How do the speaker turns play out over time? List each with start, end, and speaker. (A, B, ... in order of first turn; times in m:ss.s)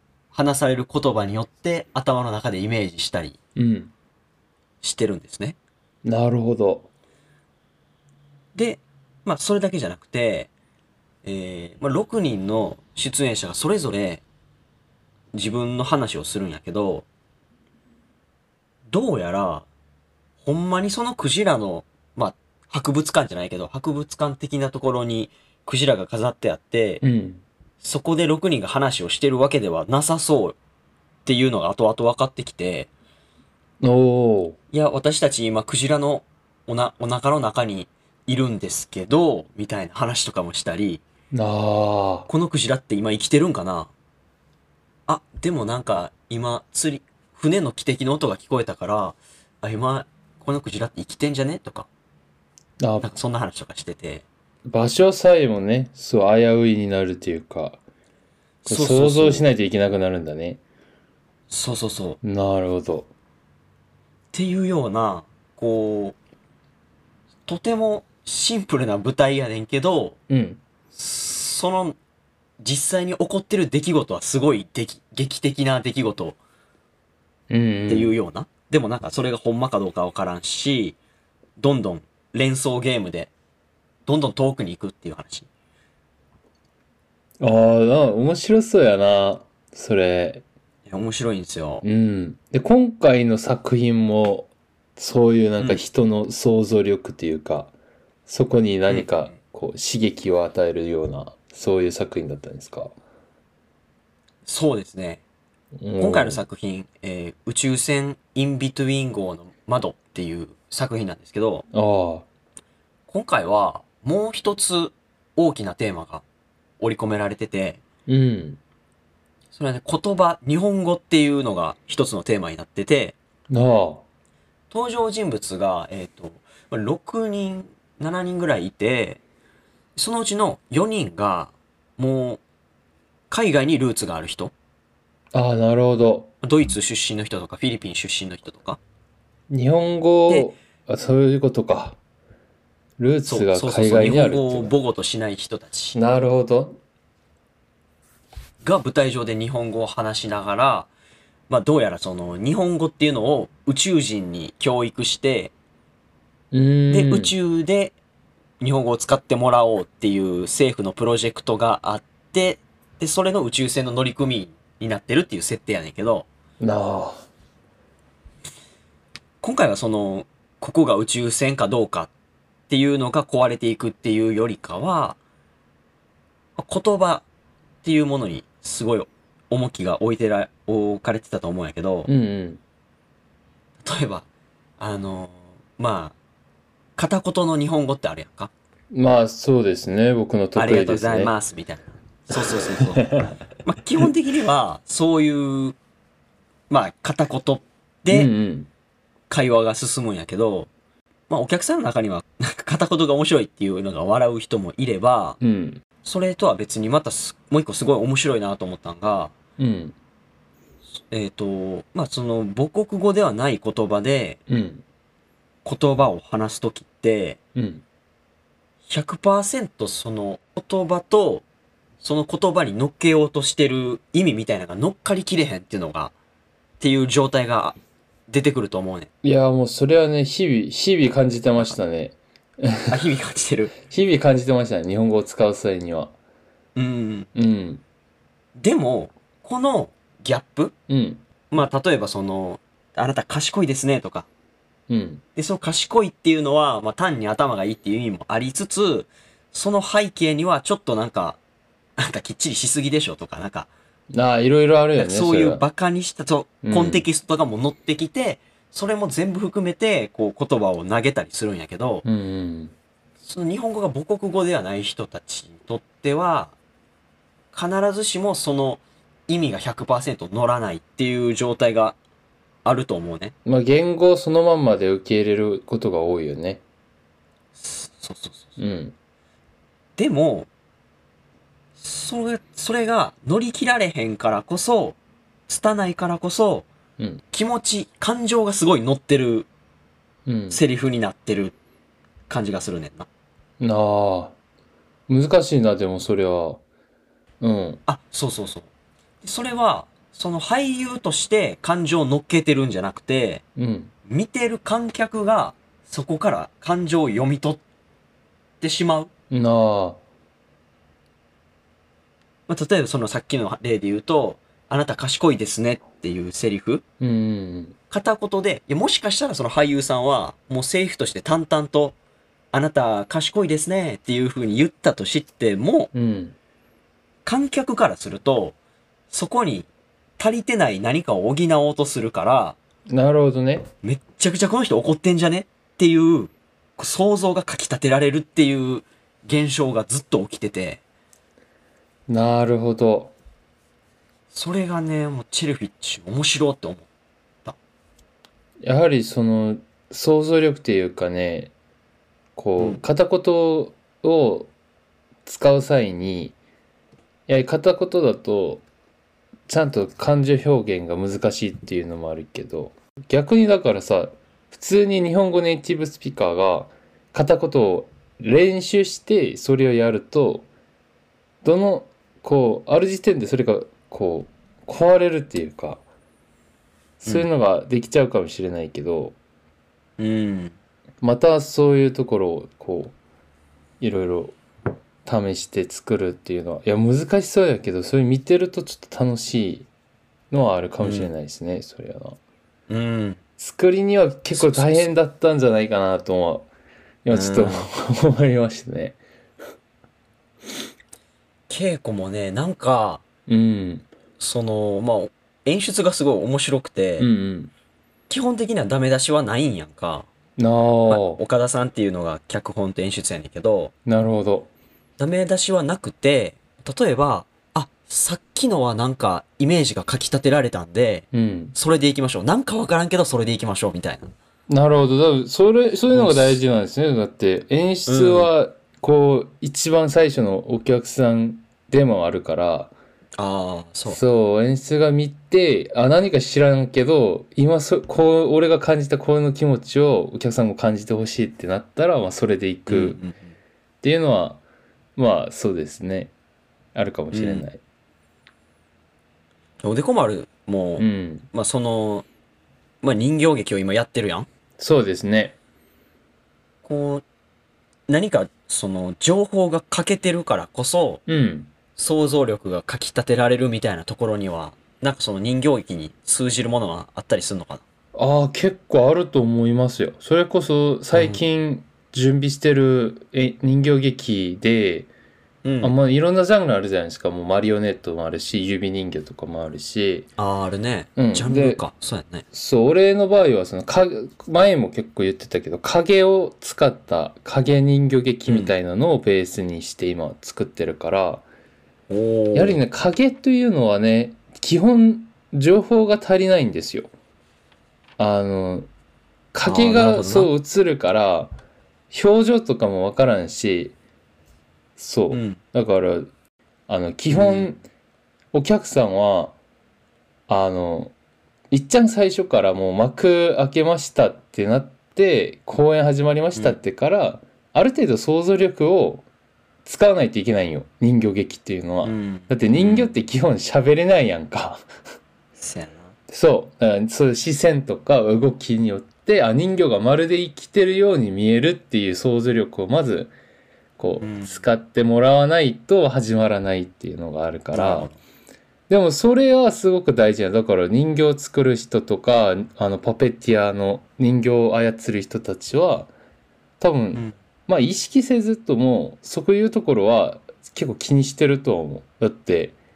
0:00.3-0:03.4 A
0:03.6-0:03.9 B
0:04.8-0:05.6 A
0:06.0-0:06.9 B
0:08.6-0:10.5 A
0:11.2-0:14.2 A
0:15.3-0:17.1 A
0:18.9-0:19.7 A
0:20.4-0:27.0 A
0:27.0-0:27.4 B
0:27.8-0:30.6 A
0:31.3-0:32.9 A
0:33.8-0:34.6 B
0:34.7-0:41.0 A
0:41.3-0:42.3 B
0:42.3-0:43.9 A
0:45.1-0:51.9 A
0:52.8-0:53.1 B
0:53.0-0:54.2 A
0:54.7-0:57.8 B
0:58.6-0:59.5 A
0:58.7-1:00.6 B
1:01.5-1:02.2 A
1:02.2-1:03.1 B
1:04.3-1:06.2 A
1:07.5-1:10.2 A
1:10.3-1:10.6 B
1:10.9-1:12.0 A
1:12.6-1:16.4 A
1:17.5-1:18.2 B
1:17.9-1:21.0 A
1:21.6-1:23.3 A
1:24.1-1:25.5 A
1:27.4-1:30.4 B
1:30.9-1:31.8 A
1:31.8-1:37.7 B
1:38.3-1:42.9 B
1:44.5-1:45.2 A
1:45.8-1:46.4 B
1:46.0-1:51.6 A
1:51.7-1:52.3 B
1:53.1-1:56.2 A
1:56.8-1:57.8 A
1:58.1-1:58.6 B
1:59.5-2:03.2 A
2:03.5-2:04.0 B
2:04.7-2:09.2 A
2:10.0-2:12.4 A
2:13.3-2:14.5 A
2:15.3-2:16.3 B
2:16.4-2:18.8 A
2:19.5-2:22.0 B
2:23.0-2:24.7 B
2:23.3-2:26.0 A
2:25.9-2:26.8 B
2:28.6-2:30.9 A
2:31.5-2:35.5 A
2:36.5-2:37.3 B
2:36.9-2:38.0 A
2:38.6-2:46.3 A
2:46.6-2:47.2 B
2:49.4-2:52.1 A
2:52.7-2:55.2 A
2:56.6-2:57.2 A
2:57.8-3:02.1 A
3:02.1-3:02.6 B
3:03.8-3:04.3 A
3:04.8-3:06.2 A
3:07.0-3:08.5 A
3:08.9-3:11.3 B
3:10.6-3:15.8 A
3:12.5-3:13.4 B
3:16.7-3:18.3 A
3:18.1-3:18.7 B
3:19.3-3:20.7 A
3:21.3-3:25.4 A
3:25.4-3:25.8 B
3:26.0-3:29.3 A
3:29.6-3:30.0 B
3:31.1-3:34.4 A
3:34.5-3:34.8 B
3:35.6-3:37.4 A
3:37.6-3:37.8 B
3:38.9-3:41.4 A
3:42.0-3:46.1 A
3:46.8-3:47.8 A
3:48.3-3:49.1 A
3:49.2-3:53.0 B
3:52.9-3:53.7 A
3:53.8-3:56.1 B
3:56.8-3:57.3 A
3:57.4-3:57.8 B
3:58.6-4:00.7 A
4:00.9-4:01.2 B
4:01.5-4:04.3 A
4:04.9-4:05.2 B
4:05.4-4:11.4 A
4:12.0-4:13.7 A
4:14.1-4:15.6 B
4:15.0-4:22.0 A
4:16.6-4:17.0 B
4:22.0-4:22.7 B
4:23.2-4:26.5 A
4:27.5-4:32.0 A
4:32.6-4:33.3 A
4:33.5-4:36.6 B
4:37.6-4:38.6 A
4:38.6-4:38.9 B
4:40.0-4:40.5 A
4:41.8-4:45.0 A
4:45.5-4:46.7 A
4:47.3-4:49.5 A
4:50.3-4:50.6 B
4:50.5-4:51.6 A
4:52.3-4:53.1 A
4:53.6-4:54.3 B
4:55.1-4:56.6 B
4:57.4-4:57.8 B
4:57.9-4:58.7 A
4:59.2-5:03.4 A
5:03.6-5:03.9 B
5:04.1-5:07.6 A
5:08.6-5:09.1 A
5:09.3-5:10.0 B
5:12.5-5:16.8 A
5:17.0-5:17.8 B
5:17.9-5:22.0 A
5:22.5-5:25.9 A
5:25.9-5:26.4 B
5:27.2-5:28.6 A
5:29.1-5:29.7 A
5:30.2-5:32.6 A
5:32.9-5:33.7 B
5:33.8-5:40.8 A
5:42.1-5:43.1 B
5:44.3-5:46.9 A
5:48.6-5:51.5 B
5:52.4-5:54.5 B
5:55.3-5:56.4 B
5:57.3-5:58.6 B
5:59.5-6:10.5 B
6:11.4-6:15.8 B
6:17.0-6:19.2 B
6:20.0-6:20.6 A
6:21.0-6:23.0 B
6:23.8-6:24.4 B
6:25.0-6:29.7 B
6:30.3-6:32.2 B
6:30.8-6:31.1 A
6:32.7-6:33.2 A
6:33.4-6:36.5 B
6:34.3-6:34.9 A
6:37.0-6:39.0 B
6:37.1-6:37.7 A
6:41.5-6:43.0 A
6:43.3-6:43.9 B
6:44.2-6:47.1 A
6:47.0-6:47.5 B
6:48.1-6:50.1 A
6:50.4-6:51.2 B
6:50.9-6:53.7 A
6:53.9-6:54.5 B
6:55.0-7:04.1 A
7:01.1-7:01.6 B
7:04.5-7:12.7 B
7:05.9-7:06.4 A
7:07.9-7:08.3 A
7:13.2-7:14.0 A
7:13.9-7:23.0 B
7:22.7-7:23.3 A
7:23.8-7:24.4 B
7:25.0-7:26.1 B
7:26.8-7:27.6 B
7:27.1-7:27.5 A
7:29.6-7:32.0 A
7:30.8-7:31.3 B
7:32.8-7:34.3 A
7:34.6-7:35.4 B
7:36.6-7:37.0 A
7:37.9-7:41.0 A
7:41.1-7:41.5 B
7:41.8-7:47.6 A
7:48.0-7:54.9 B
7:50.9-7:51.2 A
7:55.4-7:55.8 A
7:55.6-8:00.1 B
8:00.2-8:02.2 A
8:01.0-8:01.6 B
8:02.3-8:11.2 B
8:08.3-8:08.5 A
8:11.9-8:12.6 A
8:12.4-8:16.9 B
8:18.0-8:18.7 B
8:19.3-8:21.4 B
8:19.4-8:20.3 A
8:21.9-8:23.8 B
8:24.8-8:26.1 B
8:25.1-8:25.4 A
8:26.7-8:27.6 B
8:27.1-8:27.5 A
8:28.3-8:29.4 B
8:30.3-8:30.9 B
8:31.5-8:39.0 B
8:39.6-8:44.6 B
8:41.8-8:43.0 A
8:45.4-8:45.9 A
8:46.1-8:53.1 B
8:53.8-8:57.9 B
8:54.0-8:54.4 A
8:57.5-8:58.0 A
8:58.7-9:05.9 B
9:06.6-9:12.6 B